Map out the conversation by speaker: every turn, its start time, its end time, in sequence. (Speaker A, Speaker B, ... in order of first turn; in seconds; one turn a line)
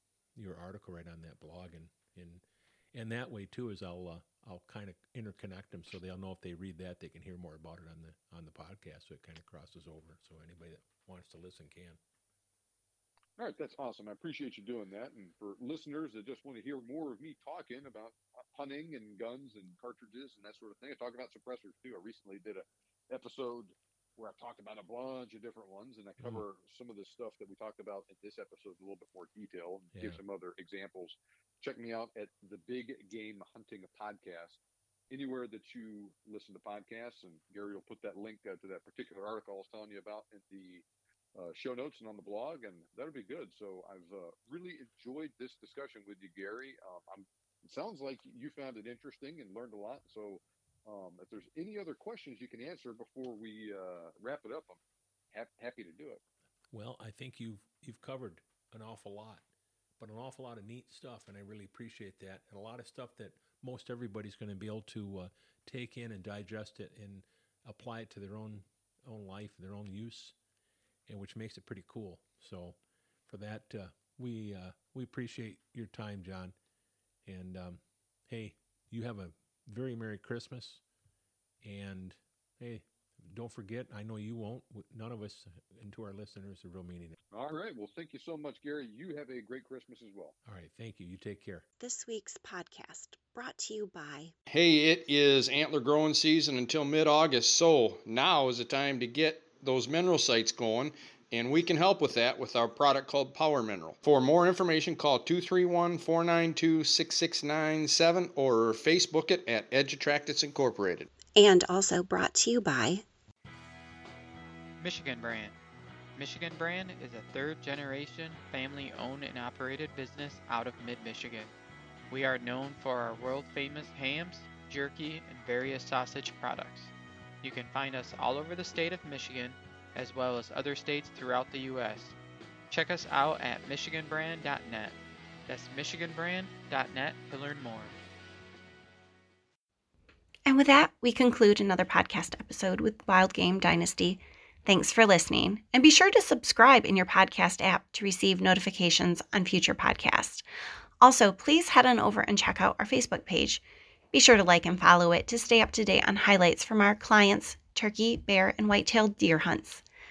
Speaker A: 0.4-12.0
Speaker B: 13.4-54.8
Speaker A: 26.2-26.4
Speaker A: 29.9-30.2
Speaker B: 55.3-56.2
Speaker A: 56.7-59.5
Speaker A: 60.0-70.3
Speaker A: 71.1-76.5
Speaker A: 77.2-80.8
Speaker A: 81.6-87.2
Speaker B: 87.3-90.3
Speaker A: 90.5-91.7
Speaker C: 91.8-94.3
Speaker D: 94.5-111.1
Speaker C: 111.3-113.0
Speaker E: 114.8-115.6
Speaker E: 116.2-121.5
Speaker E: 122.1-132.2
Speaker E: 132.7-138.0
Speaker C: 140.5-150.5
Speaker C: 151.0-159.8